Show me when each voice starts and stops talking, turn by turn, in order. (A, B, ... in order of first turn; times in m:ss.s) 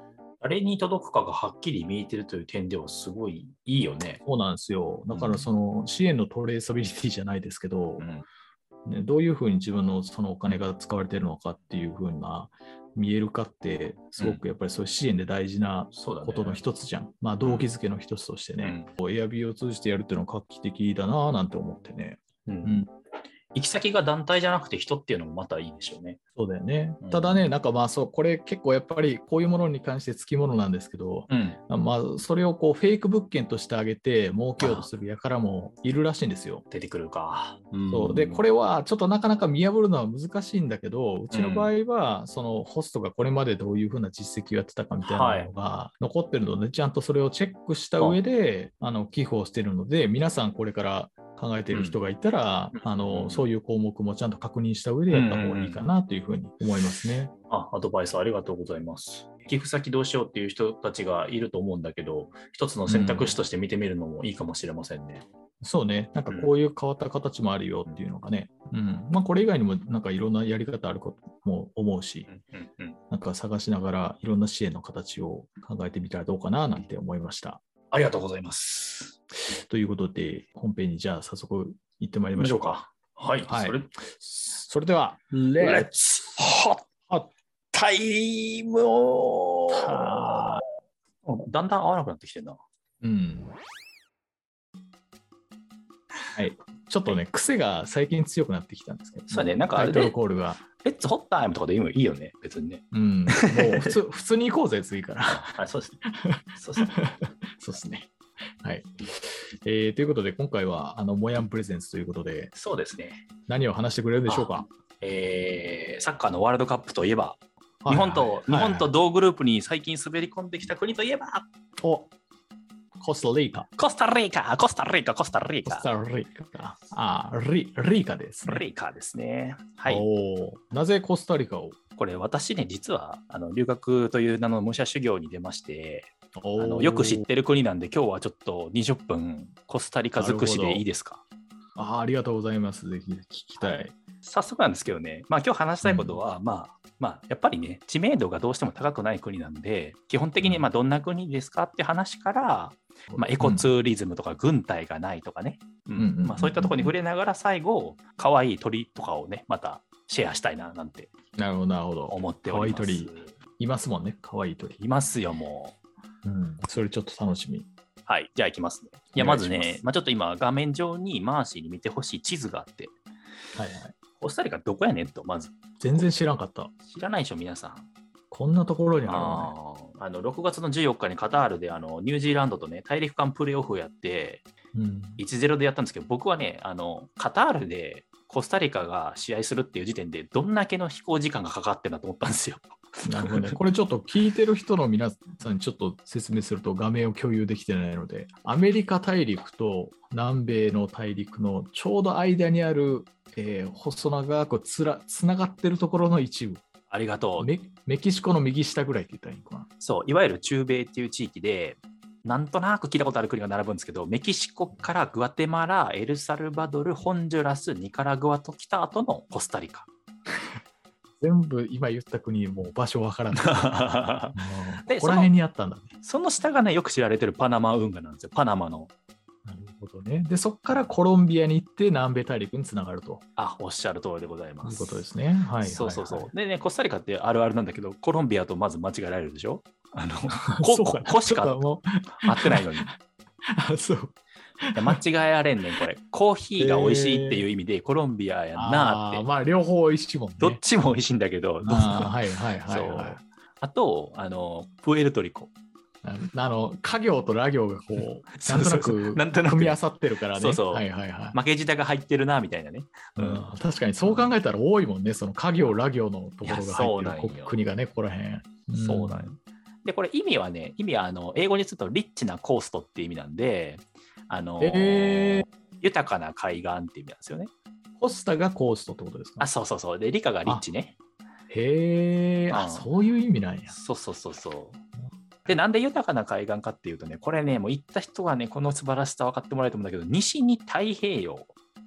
0:00.4-0:04.2 A
0:04.2-0:08.1 B
0:05.1-0:05.5 A
0:08.0-0:08.3 A
0:08.9-0:22.9 B
0:15.9-0:16.6 A
0:17.4-0:17.7 A
0:18.6-0:18.9 A
0:22.5-0:22.8 A
0:23.5-0:26.2 A
0:26.4-0:36.6 B
0:27.0-0:27.4 A
0:31.3-0:31.6 A
0:34.6-0:34.9 A
0:36.7-0:38.4 A
0:37.9-0:57.3 B
0:41.3-0:41.7 A
0:45.0-0:45.5 A
0:51.7-0:52.0 A
0:52.7-0:53.5 A
0:55.1-0:55.8 A
0:57.5-1:05.3 A
1:02.9-1:03.4 B
1:05.6-1:12.3 B
1:12.3-1:13.0 A
1:13.1-1:17.6 B
1:17.9-1:19.2 A
1:19.5-1:22.8 B
1:22.4-1:23.9 A
1:23.5-1:25.9 B
1:25.3-1:26.8 A
1:27.7-1:30.6 A
1:29.7-1:30.6 B
1:31.2-1:32.6 A
1:33.0-1:33.5 B
1:36.3-1:40.6 B
1:39.3-1:40.2 A
1:40.8-1:43.9 A
1:42.9-1:45.5 B
1:45.3-1:46.0 A
1:46.0-1:48.1 B
1:46.6-1:46.9 A
1:48.6-1:52.5 B
1:52.6-1:53.2 A
1:53.5-1:54.7 B
1:54.3-2:01.5 A
1:57.8-1:58.9 B
2:01.8-2:02.1 B
2:03.0-2:03.7 B
2:03.8-2:05.8 A
2:05.6-2:08.6 B
2:08.5-2:10.0 A
2:09.9-2:11.8 B
2:12.0-2:21.2 A
2:16.4-2:17.2 B
2:20.2-2:20.8 B
2:21.8-2:24.0 B
2:24.2-2:41.1 A
2:25.8-2:26.2 B
2:30.4-2:30.7 B
2:33.1-2:33.7 B
2:36.0-2:37.0 B
2:41.4-2:44.8 B
2:42.1-2:43.3 A
2:44.8-2:45.8 A
2:46.2-2:47.7 B
2:48.1-2:53.0 A
2:49.2-2:49.8 B
2:53.6-2:54.0 B
2:54.2-2:55.6 A
2:55.8-2:56.8 B
2:56.9-2:57.9 A
2:58.3-2:59.5 B
2:59.1-3:04.4 A
3:04.7-3:05.2 B
3:05.2-3:13.6 A
3:13.0-3:26.6 B
3:26.9-3:27.5 A
3:27.4-3:29.7 B
3:29.8-3:39.9 A
3:41.2-3:45.9 B
3:43.4-3:45.3 A
3:46.0-3:48.9 A
3:49.5-3:53.2 B
3:53.4-3:55.1 A
3:54.6-3:56.3 B
3:55.6-4:01.6 A
4:00.4-4:02.9 B
4:02.2-4:02.9 A
4:03.5-4:05.0 B
4:04.8-4:09.2 A
4:06.6-4:07.4 B
4:08.6-4:10.6 B
4:10.4-4:15.5 A
4:11.6-4:13.2 B
4:16.0-4:21.4 B
4:18.0-4:19.8 A
4:20.4-4:23.4 A
4:23.2-4:29.3 B
4:24.0-4:24.3 A
4:26.4-4:27.6 A
4:28.8-4:37.5 A
4:34.6-4:35.5 B
4:38.0-4:39.5 B
4:39.4-4:41.0 A
4:41.5-4:43.8 B
4:42.5-4:42.9 A
4:43.7-4:44.8 A
4:45.5-4:51.5 A